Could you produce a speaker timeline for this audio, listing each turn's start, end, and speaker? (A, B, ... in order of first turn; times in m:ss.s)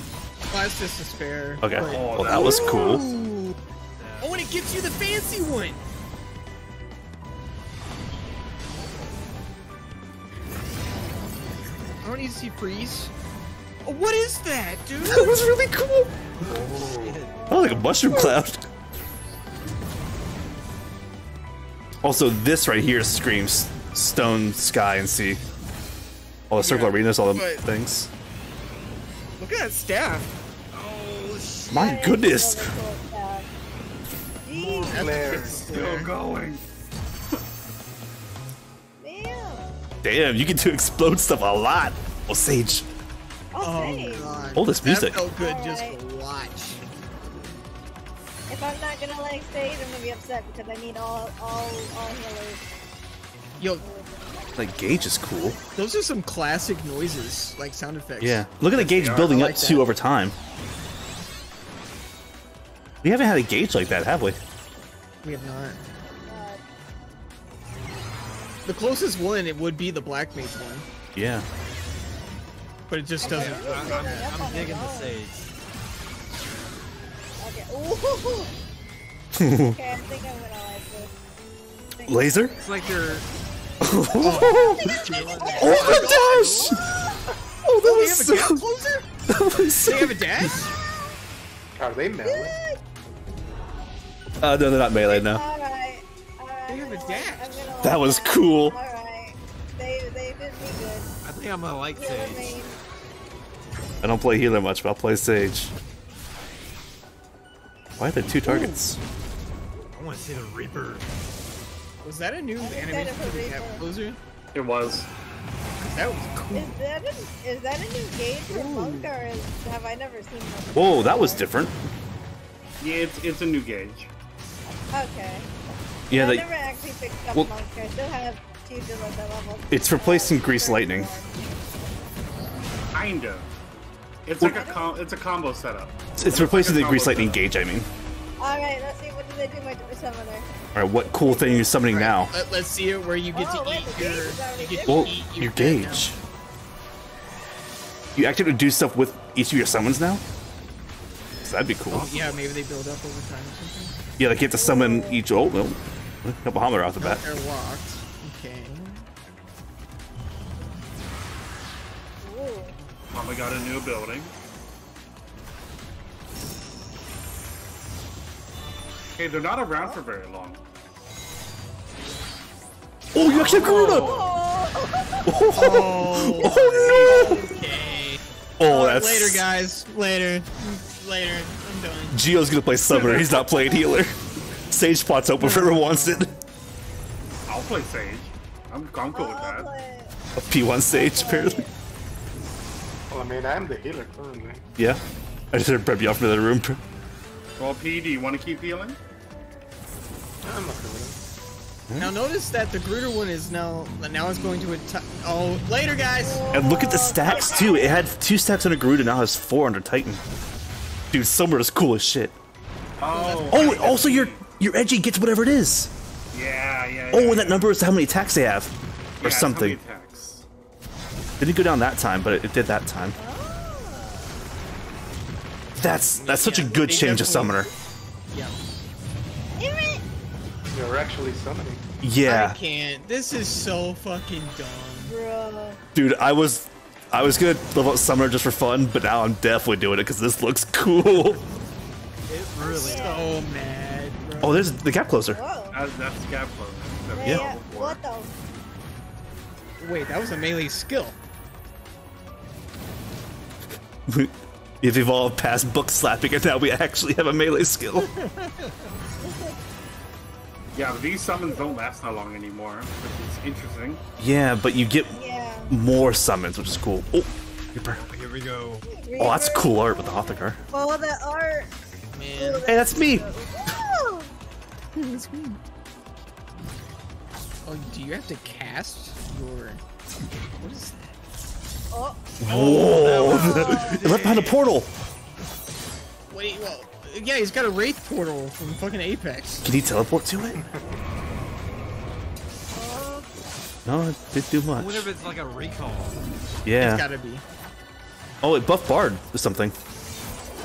0:00.5-0:03.5 A
0:01.6-0:03.1 B
0:01.7-0:02.9 C
0:04.0-0:04.6 D
0:04.2-0:05.8 A
0:12.0-0:13.1 A
0:13.8-0:15.4 A
0:15.0-0:16.1 B
0:16.6-0:17.5 D
0:17.3-0:18.4 E
0:17.5-0:18.7 B
0:22.0-0:25.4 B
0:26.5-0:28.1 B
0:26.6-0:27.6 A
0:29.4-0:30.3 A
0:30.7-0:31.9 D
0:31.7-0:32.7 B
0:31.7-0:33.5 E
0:34.4-0:35.2 E
0:34.8-0:35.6 F
0:34.9-0:36.1 A
0:35.2-0:36.6 C
0:39.0-0:39.7 E
0:40.0-0:42.9 B
0:43.5-0:44.3 E
0:43.6-0:46.8 A
0:44.6-0:45.2 B
0:45.4-0:46.0 E
0:48.5-0:52.6 E
0:53.6-0:53.8 A
0:53.8-0:55.6 E
0:54.6-0:55.6 B
0:55.7-0:59.9 A
0:58.2-1:00.3 B
0:58.8-0:59.3 C
1:03.0-1:04.4 B
1:05.2-1:05.8 A
1:06.3-1:06.6 E
1:08.6-1:10.8 A
1:11.1-1:11.4 B
1:12.9-1:14.3 A
1:13.2-1:15.2 E
1:13.2-1:15.5 D
1:17.4-1:18.5 E
1:19.4-1:19.7 B
1:19.6-1:21.1 E
1:21.9-1:23.2 E
1:22.1-1:22.5 B
1:22.6-1:23.2 D
1:23.8-1:24.9 B
1:24.2-1:26.2 E
1:24.2-1:27.0 A
1:25.1-1:26.8 D
1:25.6-1:26.8 B
1:27.6-1:28.6 B
1:27.8-1:29.1 A
1:29.3-1:30.5 B
1:29.8-1:30.7 A
1:30.5-1:31.2 E
1:31.7-1:32.6 F
1:32.2-1:32.8 E
1:34.4-1:35.4 B
1:35.1-1:41.1 E
1:36.7-1:37.7 A
1:37.8-1:38.8 B
1:41.2-1:42.6 D
1:41.9-1:42.8 E
1:44.0-1:45.7 B
1:48.0-1:49.0 B
1:48.4-1:48.8 A
1:49.9-1:51.1 D
1:52.0-1:54.2 A
1:52.6-1:53.8 E
1:54.5-1:55.1 C
1:55.8-1:56.7 A
1:56.5-2:01.5 E
1:58.5-1:59.1 A
2:00.7-2:01.7 B
2:02.8-2:04.1 C
2:04.7-2:05.5 E
2:06.1-2:06.4 B
2:06.1-2:11.5 E
2:09.7-2:11.1 B
2:12.9-2:13.5 C
2:14.2-2:17.4 C
2:14.4-2:14.9 E
2:16.2-2:17.9 B
2:18.4-2:20.5 E
2:20.7-2:22.3 B
2:21.2-2:21.8 E
2:21.9-2:26.1 A
2:23.3-2:25.2 E
2:24.9-2:26.2 B
2:28.1-2:30.2 B
2:31.4-2:32.1 B
2:31.9-2:34.0 A
2:31.9-2:32.5 D
2:34.2-2:37.2 B
2:34.5-2:35.2 E
2:37.0-2:39.0 A
2:42.2-2:42.8 E
2:43.1-2:44.3 C
2:49.2-2:50.6 C
2:53.1-2:54.1 B
2:53.2-2:54.4 C
2:53.5-2:55.3 E
2:55.3-2:57.4 B
2:55.5-3:02.2 A
2:56.4-2:58.0 E
2:58.6-2:59.4 B
3:02.1-3:04.1 B
3:02.9-3:03.4 C
3:03.5-3:03.9 E
3:04.7-3:06.3 B
3:05.4-3:06.3 A
3:07.5-3:09.7 C
3:09.1-3:10.1 E
3:10.4-3:11.6 B
3:10.9-3:11.7 E
3:13.1-3:14.6 F
3:15.5-3:16.8 B
3:17.6-3:19.0 C
3:20.4-3:21.2 F
3:21.9-3:22.1 B
3:22.0-3:26.4 A
3:26.2-3:28.0 E
3:26.5-3:30.2 B
3:27.3-3:27.6 C
3:31.1-3:32.3 B
3:33.0-3:34.4 C
3:33.1-3:33.8 A
3:33.5-3:35.9 B
3:36.3-3:37.7 C
3:37.1-3:39.8 B
3:39.2-3:40.5 C
3:41.4-3:43.2 B
3:43.2-3:44.3 E
3:45.8-3:47.7 B
3:46.2-3:47.7 A
3:46.6-3:47.0 E
3:48.3-3:48.6 A
3:49.6-3:50.0 E
3:50.7-3:51.8 F
3:52.0-3:52.6 B
3:52.2-3:55.2 A
3:55.0-3:55.8 E
3:55.9-4:01.4 B
4:02.3-4:03.1 D
4:02.6-4:03.3 E
4:02.9-4:04.7 A
4:04.4-4:05.4 B
4:05.3-4:05.8 E
4:05.7-4:08.0 C
4:07.1-4:08.3 E
4:07.2-4:07.5 B
4:09.8-4:11.2 A
4:14.1-4:18.1 B
4:19.2-4:19.6 E
4:20.7-4:24.0 C
4:21.5-4:21.8 E
4:24.2-4:25.1 B
4:25.1-4:25.8 E
4:25.7-4:28.0 B
4:28.1-4:28.8 D
4:28.8-4:31.7 E
4:29.2-4:30.6 B
4:32.1-4:32.6 A
4:32.3-4:34.3 E
4:32.6-4:33.3 B
4:35.0-4:35.6 A
4:37.6-4:39.8 A
4:40.6-4:41.1 A
4:41.9-4:42.2 E
4:42.4-4:44.9 B
4:42.5-4:44.6 D
4:42.5-4:43.1 A
4:43.1-4:44.2 E
4:46.3-4:49.6 A
4:49.6-4:50.6 B
4:50.5-4:50.9 F
4:52.7-4:53.3 E
4:53.8-4:55.1 B
4:54.7-4:56.2 D
4:56.6-4:57.0 B
4:56.8-4:57.4 A
4:58.4-4:59.7 B